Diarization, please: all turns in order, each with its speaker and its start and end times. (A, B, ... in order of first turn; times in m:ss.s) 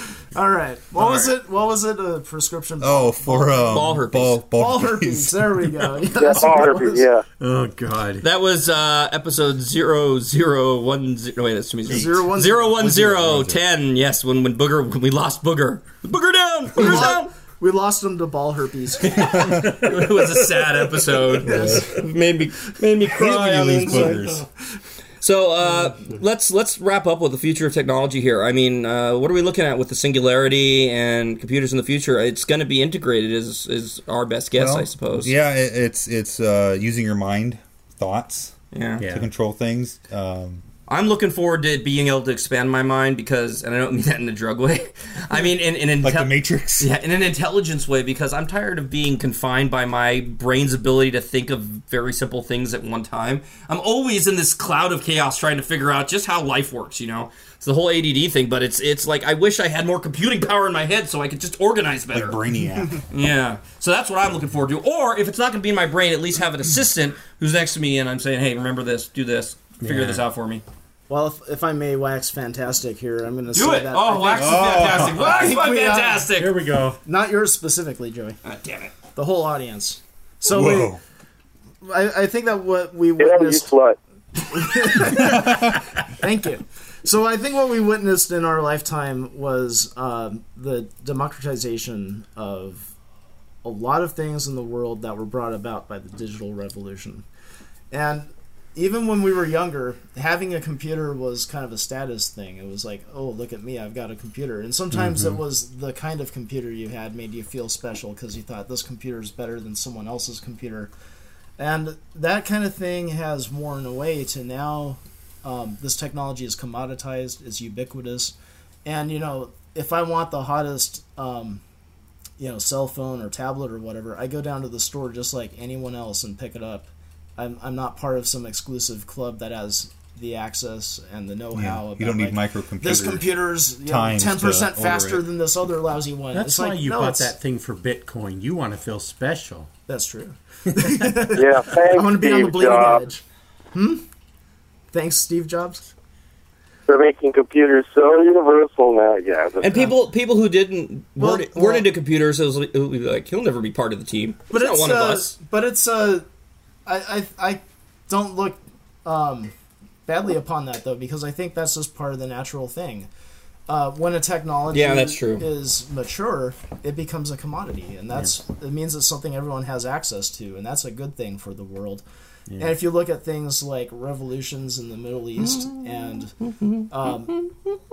0:00.3-0:03.7 A
0:01.0-0:01.3 B
0:02.8-0:05.6 C
0:03.7-0:04.4 B
0:04.6-0:07.1 A
0:06.2-0:07.2 D
0:07.4-0:08.2 E
0:08.2-0:17.3 B
0:11.9-0:13.4 A
0:16.8-0:19.8 A
0:19.1-0:24.3 B
0:21.4-0:22.0 A
0:23.1-0:24.4 C
0:23.9-0:24.4 A
0:25.2-0:35.3 B
0:34.6-0:40.6 C
0:38.7-0:39.0 B
0:39.0-0:39.3 E
0:40.9-1:02.4 B
0:46.0-0:46.9 C
1:02.1-1:03.0 C
1:03.1-1:10.6 B
1:09.8-1:10.2 E
1:11.1-1:16.3 A
1:13.5-1:16.5 B
1:14.3-1:15.3 C
1:16.4-1:17.0 E
1:17.0-1:18.4 A
1:18.4-1:18.9 B
1:19.1-1:21.0 A
1:20.5-1:21.0 C
1:21.8-1:23.7 A
1:23.2-1:24.0 D
1:24.5-1:32.9 A
1:25.0-1:25.8 C
1:33.6-1:37.2 A
1:37.9-1:50.9 A
1:51.6-1:58.3 A
1:58.8-2:01.6 A
2:02.4-2:17.3 A
2:11.6-2:13.3 C
2:13.8-2:15.2 C
2:16.3-2:19.7 E
2:19.9-2:23.2 A
2:20.8-2:21.1 E
2:21.3-2:23.0 D
2:23.7-2:24.0 A
2:24.9-2:25.9 A
2:26.9-2:29.7 D
2:29.6-2:35.3 B
2:31.2-2:31.9 A
2:34.5-2:36.3 A
2:36.9-2:39.5 A
2:40.1-2:43.1 A
2:43.7-2:52.0 A
2:44.7-2:45.5 B
2:52.6-2:56.4 A
2:56.9-2:57.4 A